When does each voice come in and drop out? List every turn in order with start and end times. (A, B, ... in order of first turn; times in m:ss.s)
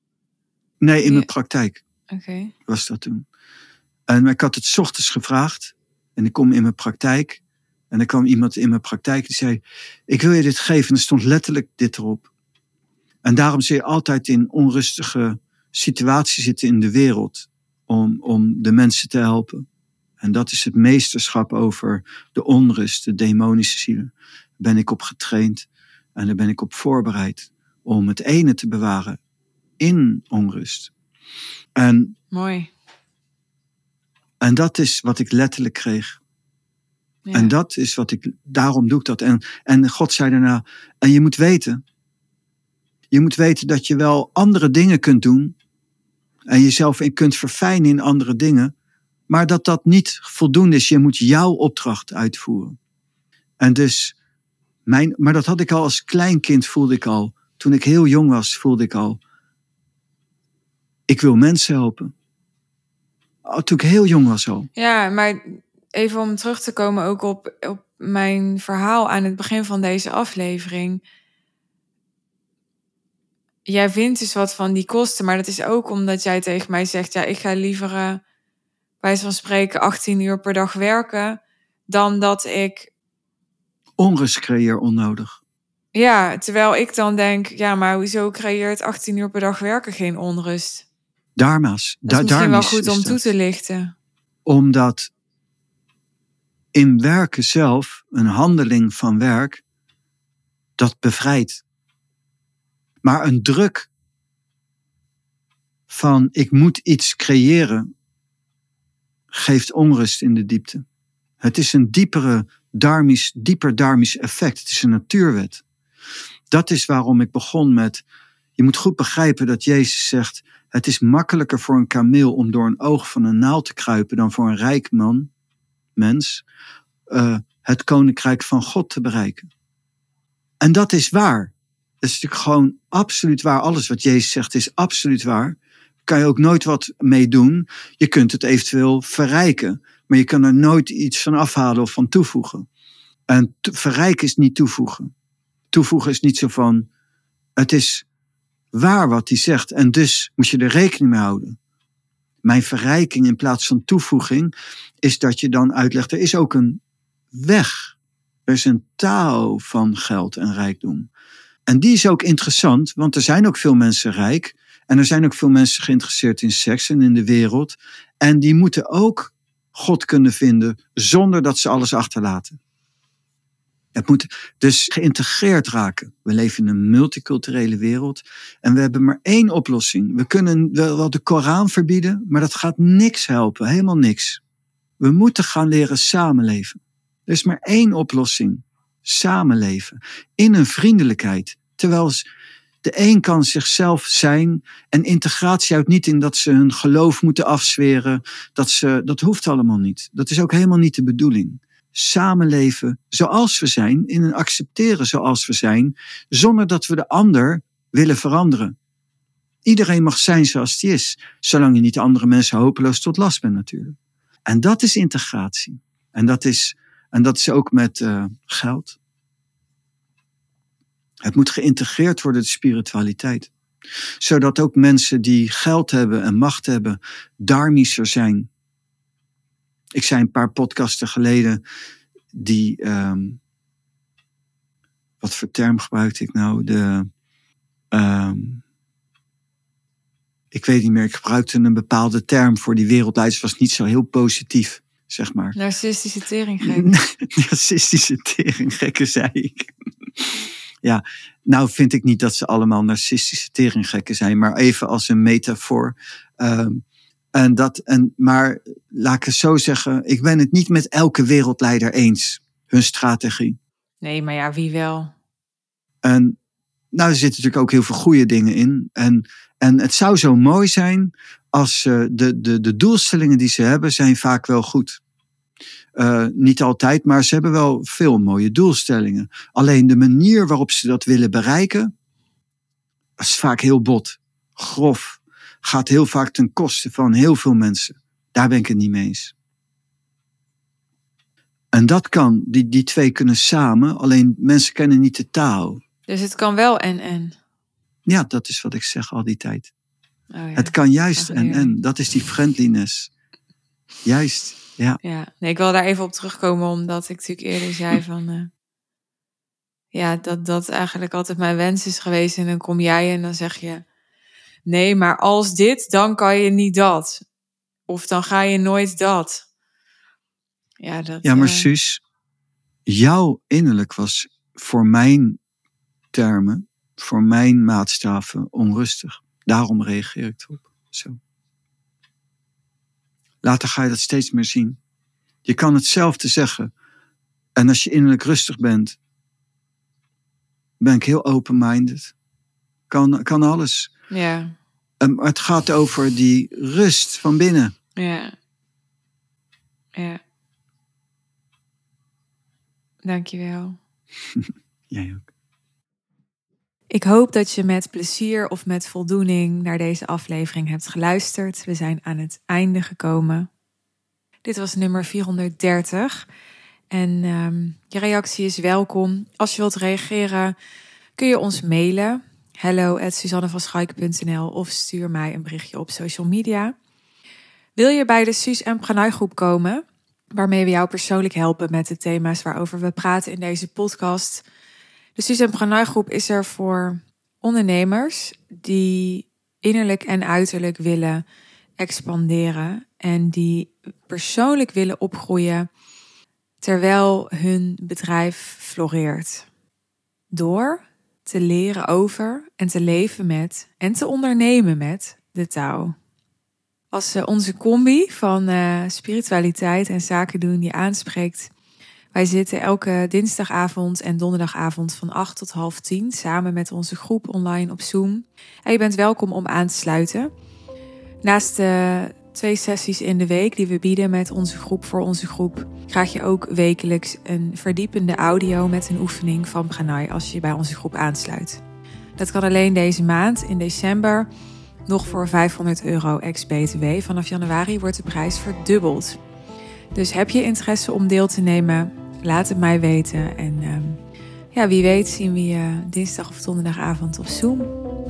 0:00.8-0:01.8 A
0:02.1-0:02.5 B
0:02.7-0:03.2 A
0:04.1-0:12.3 A
0:13.2-0:19.6 A
0:20.2-0:29.2 A
0:29.8-0:30.9 A
0:31.8-0:32.2 A
0:32.3-0:32.7 B
0:34.4-0:36.2 A
0:37.3-0:37.5 B
0:37.3-0:41.8 A
0:43.1-0:45.6 A
0:46.5-0:48.7 A
0:49.3-0:52.8 A
0:53.6-0:54.2 A
0:54.9-0:59.2 A
1:01.1-1:02.1 A
1:03.4-1:04.7 A
1:04.8-1:11.0 B
1:13.7-1:18.2 B
1:19.0-1:22.9 B
1:24.0-1:25.4 A
1:25.9-1:30.8 B
1:31.4-1:33.3 A
1:32.1-1:33.9 B
1:34.5-1:35.1 A
1:36.7-1:39.6 A
1:40.8-1:41.6 A
1:43.0-1:43.9 A
1:45.9-1:47.9 A
1:49.3-1:50.8 A
1:51.4-1:55.6 A
1:56.5-1:58.0 A
1:58.6-2:05.3 A
2:06.0-2:06.4 A
2:07.1-2:09.5 A
2:10.6-2:22.7 A
2:23.3-2:25.1 A
2:25.7-2:26.9 A
2:27.6-2:28.0 A
2:28.7-2:31.6 A
2:32.4-2:36.8 A
2:37.3-2:38.0 A
2:38.5-2:41.1 A
2:41.7-2:52.6 A
2:54.0-3:04.4 A
3:05.0-3:12.2 A
3:12.8-3:28.8 A
3:29.6-3:34.0 A
3:34.5-3:39.0 A
3:41.2-3:43.5 A
3:44.2-3:48.5 A
3:50.0-3:51.6 A
3:52.3-3:53.4 A
3:55.2-3:57.1 A
3:57.9-3:58.6 A
4:00.5-4:05.6 A
4:05.6-4:06.9 B
4:06.6-4:16.8 A
4:17.4-4:23.6 A
4:24.0-4:25.1 B
4:26.0-4:26.4 A
4:26.9-4:35.0 A
4:36.0-4:41.9 A
4:43.2-4:49.3 A
4:51.7-4:55.8 A
4:56.1-4:57.4 B
4:58.1-4:59.7 A
5:00.3-5:01.8 B
5:00.6-5:03.1 A
5:04.0-5:05.0 A
5:05.0-5:08.5 B
5:09.9-5:13.8 B
5:14.6-5:17.2 B
5:17.9-5:19.4 B
5:20.8-5:21.7 B
5:21.2-5:22.0 A
5:22.9-5:25.4 A
5:26.1-5:31.2 A
5:33.4-5:34.8 A
5:35.4-5:36.7 A
5:37.6-5:39.0 A
5:40.8-5:42.1 A
5:42.9-5:43.9 A
5:44.1-5:44.6 B
5:45.0-5:47.7 A
5:48.0-5:48.3 B
5:50.0-5:50.2 B
5:53.0-5:53.8 B
5:54.4-5:55.3 A
5:56.9-6:03.5 B
6:04.4-6:06.3 B
6:06.9-6:10.6 B
6:11.2-6:16.8 B
6:17.8-6:24.4 B
6:25.2-6:31.2 B
6:31.8-6:35.7 B
6:36.6-6:39.5 B
6:40.3-6:46.0 B
6:46.9-6:51.5 B
6:52.1-7:00.3 B
7:01.2-7:11.6 B
7:12.2-7:14.3 B
7:14.9-7:19.2 B
7:19.9-7:24.0 B
7:24.5-7:27.7 B